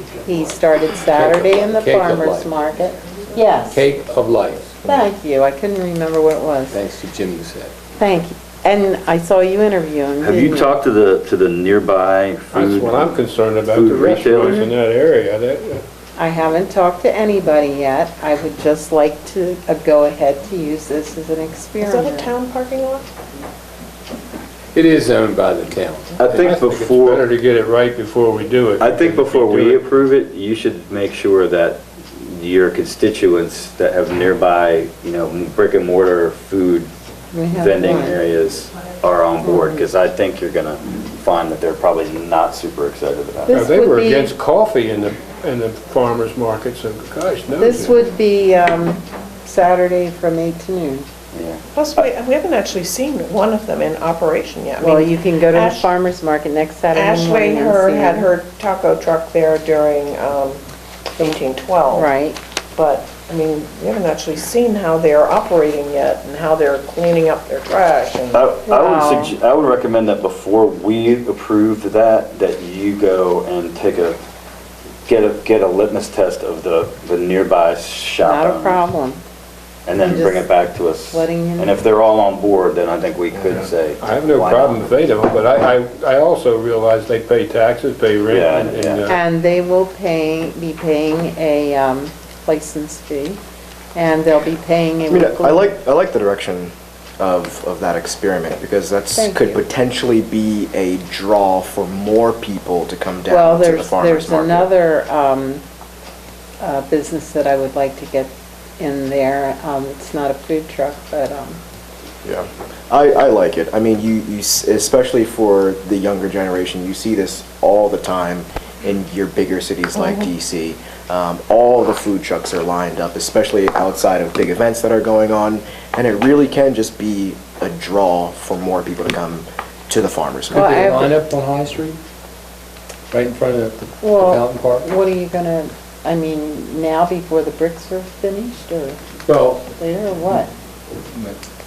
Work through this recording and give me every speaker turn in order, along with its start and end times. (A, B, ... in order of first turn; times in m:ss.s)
0:00.2-0:03.8 A
0:01.1-0:02.5 B
0:03.7-0:04.8 B
0:04.8-0:06.8 A
0:06.7-0:07.7 B
0:08.0-0:10.8 A
0:10.2-0:14.6 C
0:12.5-0:15.8 D
0:14.4-0:14.7 A
0:16.2-0:22.3 A
0:21.8-0:23.1 E
0:24.7-0:26.3 B
0:26.2-0:27.3 C
0:26.3-0:29.8 D
0:28.8-0:36.9 C
0:37.3-0:38.2 A
0:37.5-0:43.6 C
0:39.4-0:39.8 A
0:43.5-0:44.3 A
0:43.5-0:48.0 D
0:47.6-0:51.0 A
0:51.3-0:51.6 C
0:51.7-0:55.9 E
0:54.8-0:58.3 A
0:56.9-1:00.6 E
1:01.2-1:02.1 E
1:01.9-1:02.4 A
1:02.7-1:08.5 E
1:08.3-1:14.2 C
1:08.6-1:09.4 A
1:15.0-1:18.8 C
1:18.2-1:19.2 A
1:19.8-1:24.9 C
1:20.0-1:20.5 A
1:21.1-1:21.8 A
1:24.0-1:29.2 D
1:28.3-1:29.1 C
1:29.0-1:33.4 A
1:33.9-1:35.7 A
1:35.1-1:44.7 F
1:39.1-1:39.6 A
1:43.3-1:45.6 A
1:46.6-1:51.6 A
1:52.2-2:10.8 F
2:00.0-2:00.3 E
2:10.5-2:12.0 B
2:10.5-2:11.1 A
2:13.1-2:14.9 B
2:14.0-2:19.0 A
2:19.2-2:19.6 B
2:19.7-2:20.5 A
2:21.1-2:21.4 B